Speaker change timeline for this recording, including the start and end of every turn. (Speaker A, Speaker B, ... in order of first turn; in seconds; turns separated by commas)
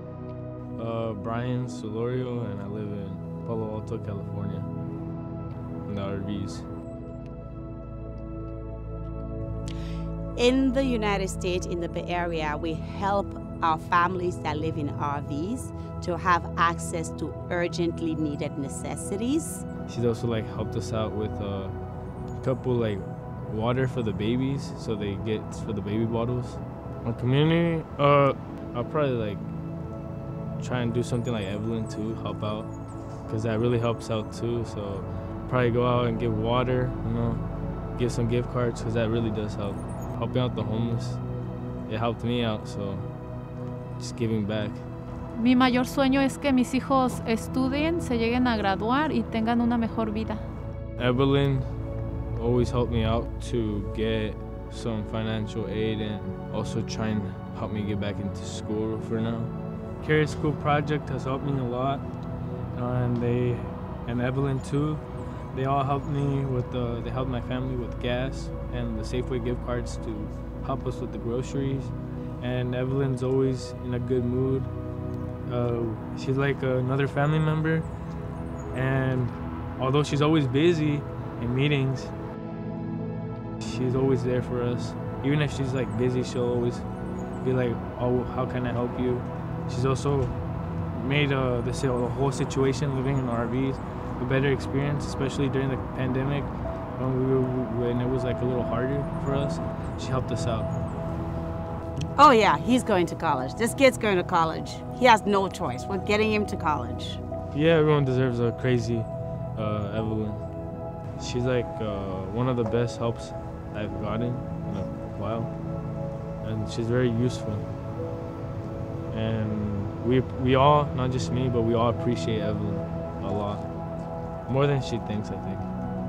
Speaker A: 0.8-4.7, Speaker A: 5.8-6.7, Speaker B: 10.3-19.6, Speaker A: 19.9-21.8, Speaker A: 22.4-29.4, Speaker A: 30.6-32.7, Speaker A: 33.2-41.2, Speaker A: 41.9-43.1, Speaker A: 44.0-44.8, Speaker C: 45.4-50.4, Speaker A: 51.0-51.7, Speaker A: 52.3-62.0, Speaker A: 62.7-74.7, Speaker A: 75.5-77.9, Speaker A: 78.7-82.1, Speaker A: 83.6-86.9, Speaker A: 87.4-90.4, Speaker A: 90.9-100.7, Speaker B: 102.2-107.2, Speaker A: 107.5-110.4, Speaker A: 111.2-115.5, Speaker A: 116.4-117.7, Speaker A: 119.1-123.7, Speaker A: 124.5-125.7